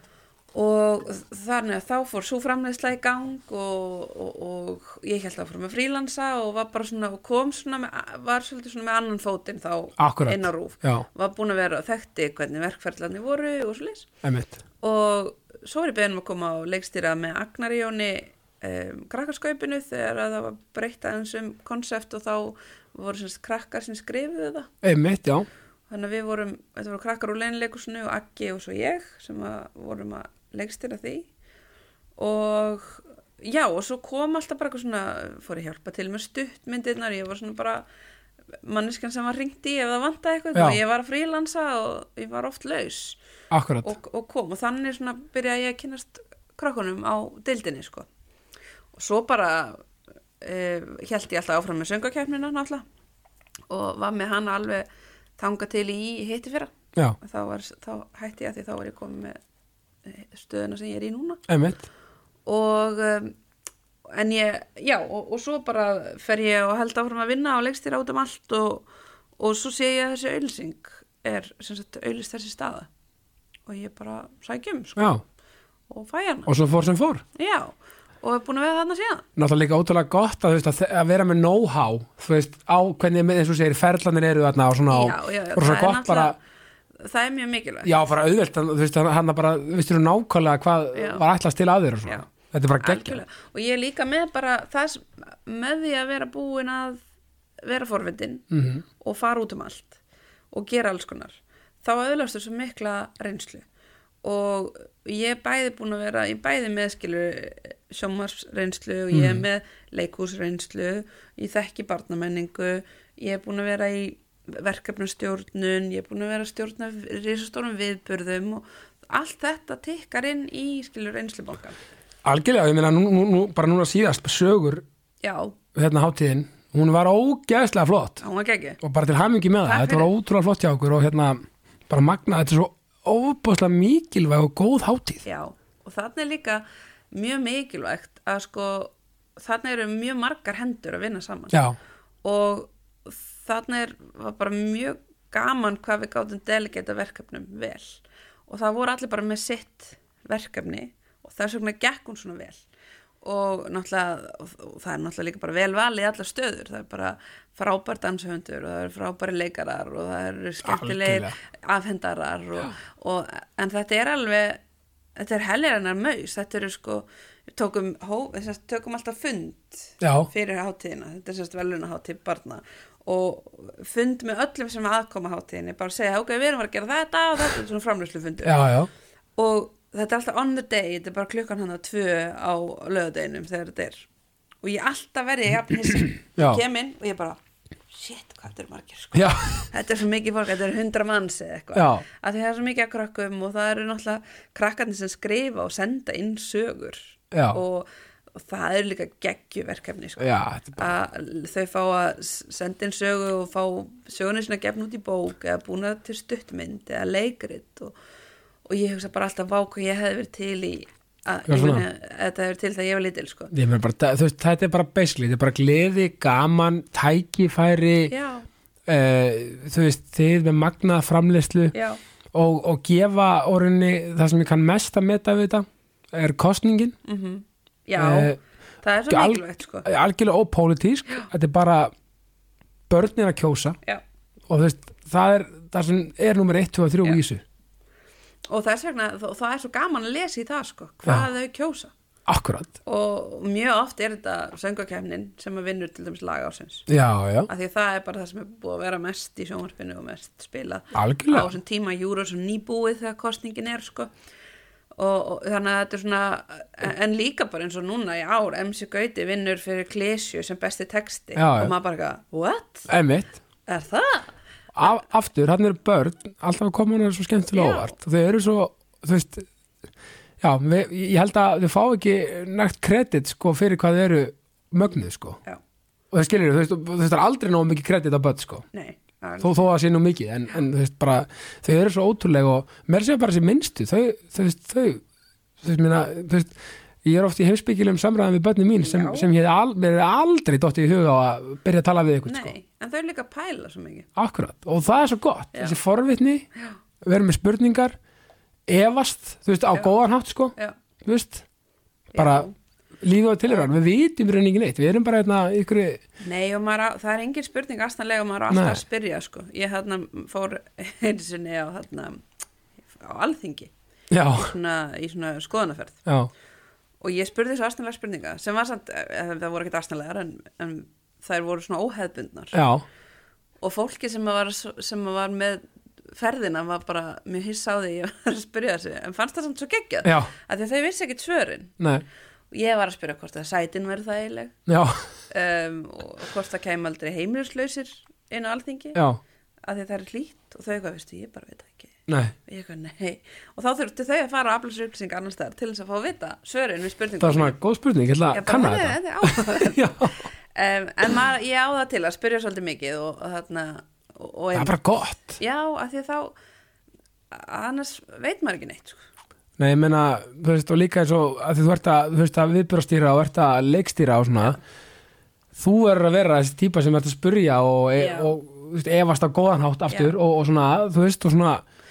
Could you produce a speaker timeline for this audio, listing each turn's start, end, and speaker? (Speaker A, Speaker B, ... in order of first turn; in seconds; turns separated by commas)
Speaker A: 0.5-14.1, Speaker B: 10.0-11.1, Speaker B: 14.2-14.6, Speaker A: 14.8-24.7, Speaker B: 24.8-25.5, Speaker A: 25.9-31.3, Speaker A: 32.2-37.8, Speaker A: 38.6-43.2, Speaker B: 40.5-40.8, Speaker B: 43.5-43.9, Speaker A: 43.8-48.1, Speaker A: 48.9-49.8, Speaker A: 50.4-52.9, Speaker A: 53.7-59.4, Speaker A: 60.0-61.4, Speaker B: 61.5-61.9, Speaker A: 62.5-63.4, Speaker A: 64.0-68.9, Speaker A: 69.4-72.9, Speaker A: 73.7-75.1, Speaker B: 75.0-75.2, Speaker A: 75.9-76.5, Speaker B: 76.5-77.2, Speaker A: 77.3-79.3, Speaker B: 79.4-86.4, Speaker A: 84.9-86.4, Speaker A: 87.0-87.9, Speaker B: 87.8-93.2, Speaker A: 90.9-91.2, Speaker A: 92.1-97.0, Speaker A: 97.6-100.0, Speaker B: 98.5-98.8, Speaker A: 100.5-103.7, Speaker A: 104.2-121.8, Speaker B: 109.1-109.5, Speaker B: 122.2-124.8, Speaker A: 125.2-125.6, Speaker B: 125.8-128.2, Speaker A: 128.2-128.8, Speaker B: 128.8-135.2, Speaker A: 129.6-130.1, Speaker A: 135.2-141.6, Speaker B: 141.5-141.8, Speaker A: 142.2-152.6, Speaker A: 153.2-164.6, Speaker B: 160.6-161.3, Speaker A: 165.2-178.6, Speaker B: 170.0-170.3, Speaker B: 178.4-178.9, Speaker A: 179.4-184.1, Speaker A: 184.6-208.0, Speaker B: 185.9-186.6, Speaker B: 189.1-189.7, Speaker B: 191.7-192.1, Speaker B: 197.3-197.6, Speaker B: 200.2-200.9, Speaker A: 208.7-213.5, Speaker B: 211.5-211.8, Speaker B: 213.5-218.1, Speaker A: 218.1-218.5, Speaker B: 218.9-221.8, Speaker A: 221.7-222.0, Speaker B: 222.3-226.9, Speaker A: 227.1-229.9, Speaker B: 228.0-228.4, Speaker B: 229.1-231.9, Speaker B: 232.9-233.8, Speaker B: 234.5-237.4, Speaker A: 238.5-241.9, Speaker B: 242.3-242.7, Speaker A: 242.8-246.9, Speaker B: 246.9-247.5, Speaker A: 247.5-254.1, Speaker B: 250.9-251.5, Speaker A: 255.0-262.9, Speaker B: 261.4-261.7, Speaker B: 262.9-263.4, Speaker A: 263.7-264.3, Speaker B: 264.8-269.5, Speaker A: 267.5-267.9, Speaker B: 270.4-275.4, Speaker B: 276.1-278.6, Speaker A: 278.7-279.7, Speaker B: 279.4-285.0, Speaker B: 285.6-292.6, Speaker A: 288.8-289.3, Speaker A: 292.3-294.1, Speaker B: 294.2-296.5, Speaker B: 297.0-297.9, Speaker B: 298.7-301.4, Speaker A: 302.1-302.5, Speaker B: 302.1-302.5, Speaker B: 303.0-306.0, Speaker A: 306.2-312.2, Speaker B: 308.5-308.8, Speaker A: 312.9-313.7, Speaker B: 314.1-314.5, Speaker A: 314.3-316.0, Speaker B: 316.1-316.3, Speaker A: 317.0-322.6, Speaker B: 322.5-322.8, Speaker A: 323.6-331.8, Speaker B: 330.0-330.3, Speaker B: 331.8-332.1, Speaker A: 332.5-334.6, Speaker B: 334.7-335.1, Speaker A: 335.3-339.0, Speaker B: 338.9-339.2, Speaker A: 339.6-341.9, Speaker B: 342.1-342.3, Speaker A: 342.5-347.6, Speaker B: 347.2-350.3, Speaker A: 348.3-354.7, Speaker B: 354.6-355.4, Speaker A: 355.4-356.4, Speaker A: 357.3-359.0, Speaker B: 359.6-364.6, Speaker B: 365.6-371.6, Speaker A: 368.0-368.3, Speaker A: 369.9-370.1